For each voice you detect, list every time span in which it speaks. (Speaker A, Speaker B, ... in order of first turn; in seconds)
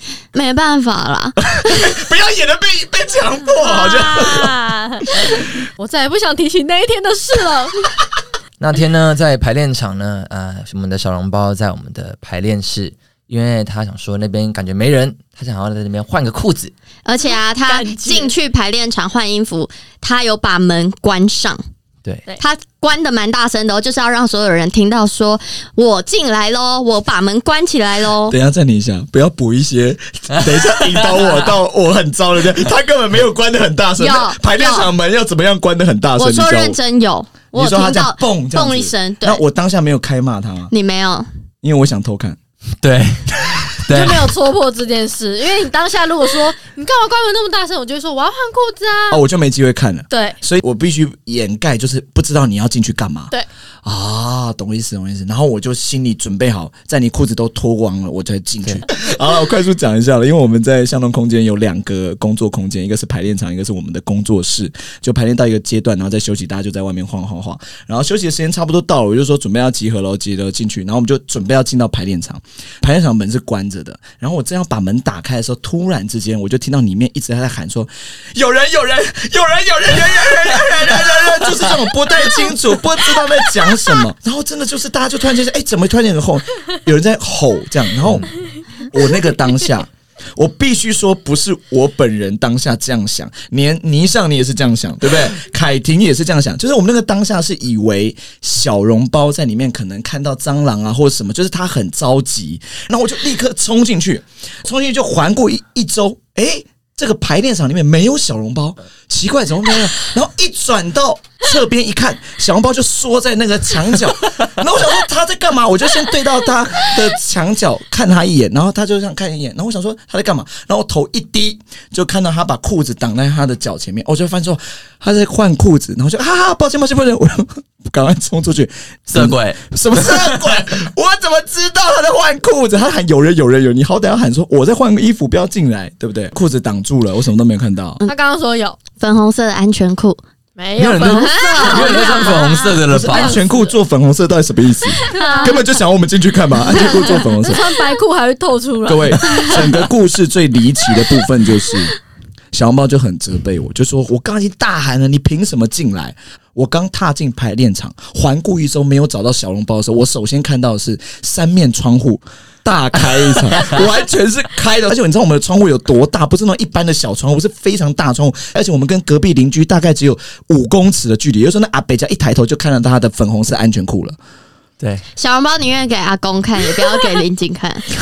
Speaker A: 0.3-1.5, 17.0-21.6, 22.4-28.4, 34.0-34.9, 36.1-39.4, 40.7-41.3, 139.0-140.2, 140.9-142.8, 145.0-145.6, 175.2-177.9
Speaker B: 1.5-4.6, 28.3-36.8, 37.5-40.7, 41.6-42.4, 49.1-53.3, 53.8-88.3, 88.9-138.0, 140.8-141.3, 142.9-147.6, 148.8-151.9, 152.5-174.2
Speaker C: 3.6-7.9, 17.2-18.3, 43.9-49.2, 50.1-50.4, 138.1-138.8, 140.6-143.8, 145.1-145.6, 146.7-149.8
Speaker D: 8.6-16.7, 30.3-31.4, 42.8-44.3, 80.8-81.7, 88.0-88.3, 129.1-130.3, 141.6-143.4